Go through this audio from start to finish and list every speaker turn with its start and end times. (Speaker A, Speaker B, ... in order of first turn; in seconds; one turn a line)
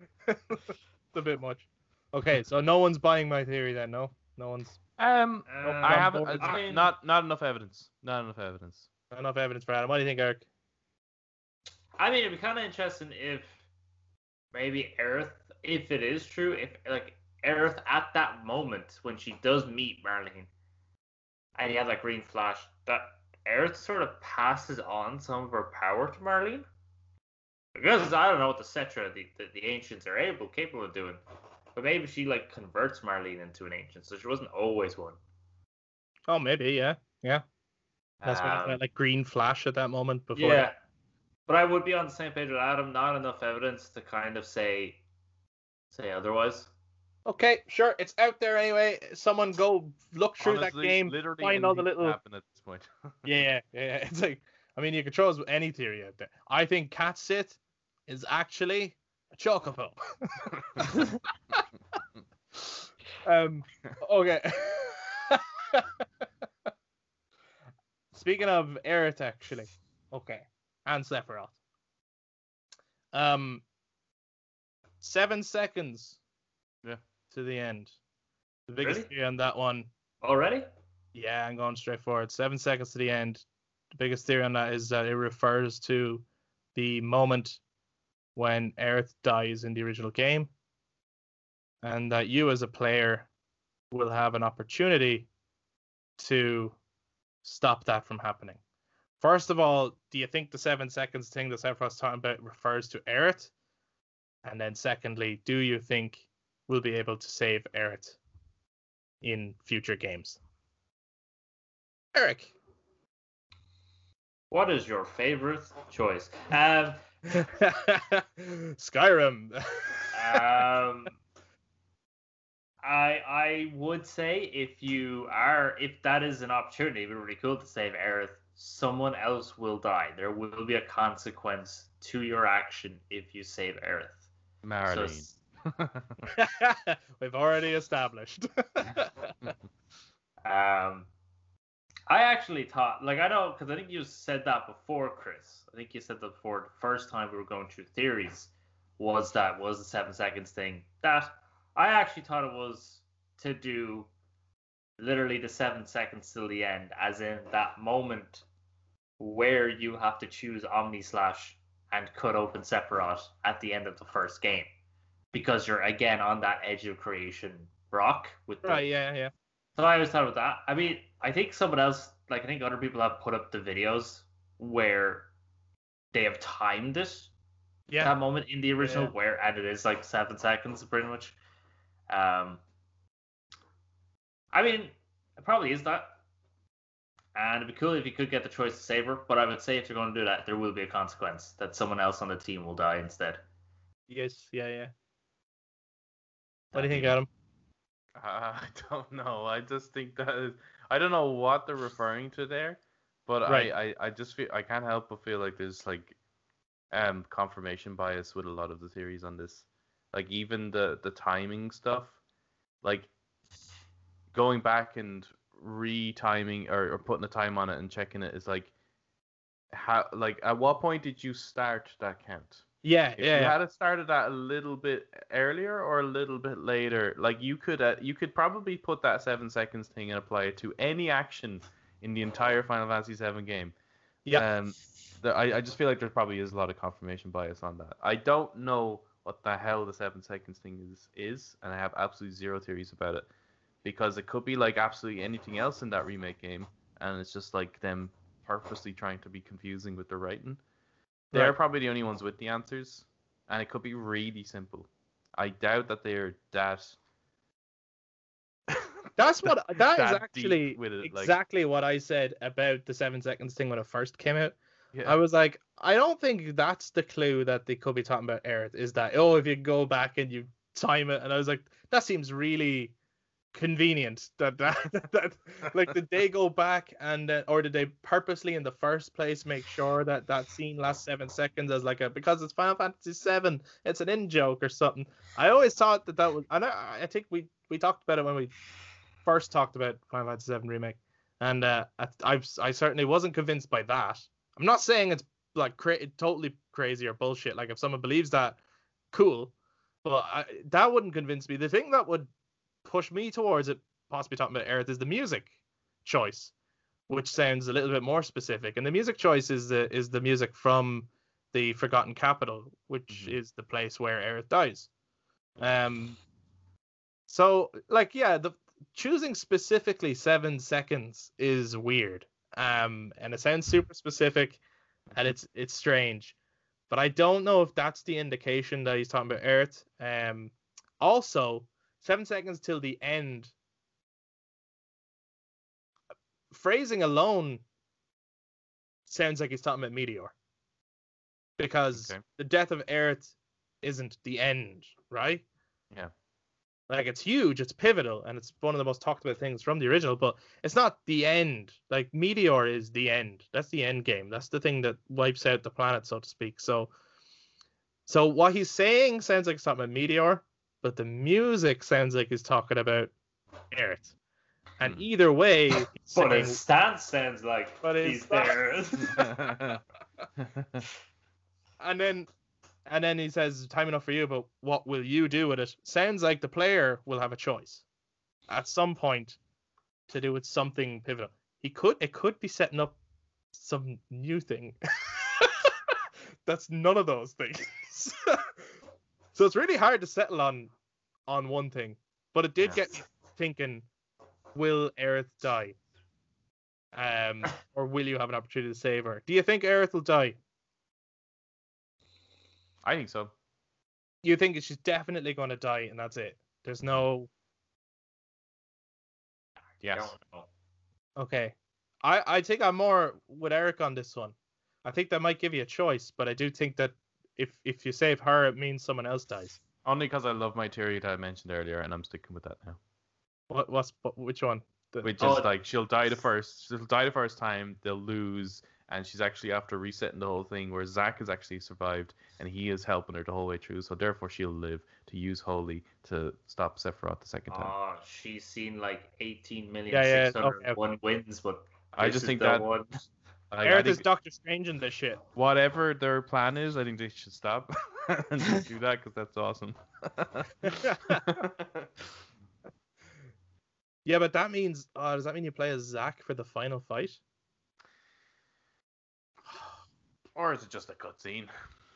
Speaker A: 0.3-4.8
Speaker B: 5.0-8.9
Speaker C: 5.5-6.9
Speaker A: 5.6-6.5
Speaker A: 9.1-10.4
Speaker C: 12.0-13.6
Speaker C: 14.5-20.5
Speaker C: 21.6-26.7
Speaker C: 27.8-31.2
Speaker C: 31.7-35.2
Speaker A: 36.3-37.4
Speaker C: 38.2-38.8
Speaker A: 38.2-40.7
Speaker C: 40.3-40.7
Speaker C: 41.5-45.0
Speaker C: 45.9-46.7
Speaker A: 47.2-52.2
Speaker B: 50.4-53.1
Speaker A: 53.2-60.0
Speaker A: 60.8-61.6
Speaker A: 63.2-66.0
Speaker A: 68.1-71.5
Speaker A: 73.1-73.6
Speaker A: 75.0-76.2
Speaker A: 77.3-77.9
Speaker A: 78.7-79.9
Speaker C: 78.8-79.1
Speaker C: 80.2-80.7
Speaker A: 81.1-86.2
Speaker A: 86.7-87.6
Speaker A: 88.3-90.5
Speaker A: 91.8-93.3
Speaker A: 93.9-95.3
Speaker A: 96.2-96.8
Speaker A: 97.4-98.6
Speaker A: 99.2-103.5
Speaker A: 104.4-108.2
Speaker A: 109.2-110.4
Speaker A: 112.1-112.5
Speaker C: 114.5-117.0
Speaker A: 117.3-120.4
Speaker C: 120.1-121.2
Speaker C: 122.8-134.2
Speaker B: 134.6-136.2
Speaker C: 134.9-135.4
Speaker A: 136.3-139.3
Speaker C: 140.4-141.1
Speaker C: 142.1-154.1
Speaker C: 155.0-158.4
Speaker C: 159.2-164.7
Speaker C: 165.3-168.8
Speaker A: 168.6-169.3
Speaker C: 169.8-175.3
Speaker C: 176.1-177.3
Speaker A: 177.9-178.1
Speaker C: 178.0-181.4
Speaker A: 178.8-179.1
Speaker C: 182.1-182.6
Speaker C: 184.5-186.2
Speaker C: 187.3-193.4
Speaker A: 194.1-194.9
Speaker A: 196.7-197.3
Speaker B: 196.8-197.1
Speaker B: 198.2-206.2
Speaker B: 206.9-212.2
Speaker B: 212.8-213.1
Speaker B: 214.3-218.7
Speaker B: 219.7-222.6
Speaker A: 222.8-223.6
Speaker B: 223.2-233.7
Speaker B: 234.3-243.3
Speaker B: 243.8-250.6
Speaker B: 251.3-256.9
Speaker A: 259.1-272.9
Speaker B: 259.4-261.4
Speaker B: 264.9-265.2
Speaker A: 273.5-288.5
Speaker A: 289.2-298.6
Speaker A: 299.1-299.5
Speaker A: 300.0-302.3
Speaker A: 302.8-305.5
Speaker A: 306.0-306.5
Speaker A: 307.1-314.9
Speaker B: 313.1-313.4
Speaker A: 315.6-316.2
Speaker A: 317.3-324.6
Speaker A: 325.1-326.3
Speaker A: 326.9-333.5
Speaker A: 336.5-337.6
Speaker A: 339.1-340.3
Speaker A: 341.6-345.4
Speaker B: 341.9-342.2
Speaker A: 346.9-356.9
Speaker A: 358.1-363.1
Speaker A: 363.7-364.1
Speaker A: 364.8-366.6
Speaker C: 366.0-369.3
Speaker A: 367.8-368.6
Speaker B: 369.1-369.8
Speaker B: 370.4-370.8
Speaker A: 371.8-372.3
Speaker A: 372.9-377.8
Speaker A: 378.5-379.4
Speaker A: 380.1-382.9
Speaker A: 383.5-385.7
Speaker A: 386.4-388.4
Speaker A: 389.3-390.7
Speaker A: 391.3-393.9
Speaker A: 394.5-395.8
Speaker A: 396.9-400.4
Speaker B: 402.8-403.3
Speaker A: 404.2-407.3
Speaker B: 409.8-410.1
Speaker C: 409.8-410.5
Speaker A: 411.2-419.6
Speaker B: 419.8-422.8
Speaker A: 423.5-425.4
Speaker B: 425.0-437.7
Speaker C: 425.2-425.5
Speaker C: 437.5-443.0
Speaker A: 439.9-440.8
Speaker B: 441.9-442.6
Speaker B: 443.5-444.0
Speaker A: 443.6-445.2
Speaker B: 445.3-451.9
Speaker A: 450.6-451.4
Speaker A: 454.0-457.2
Speaker B: 459.4-459.8
Speaker B: 460.3-461.5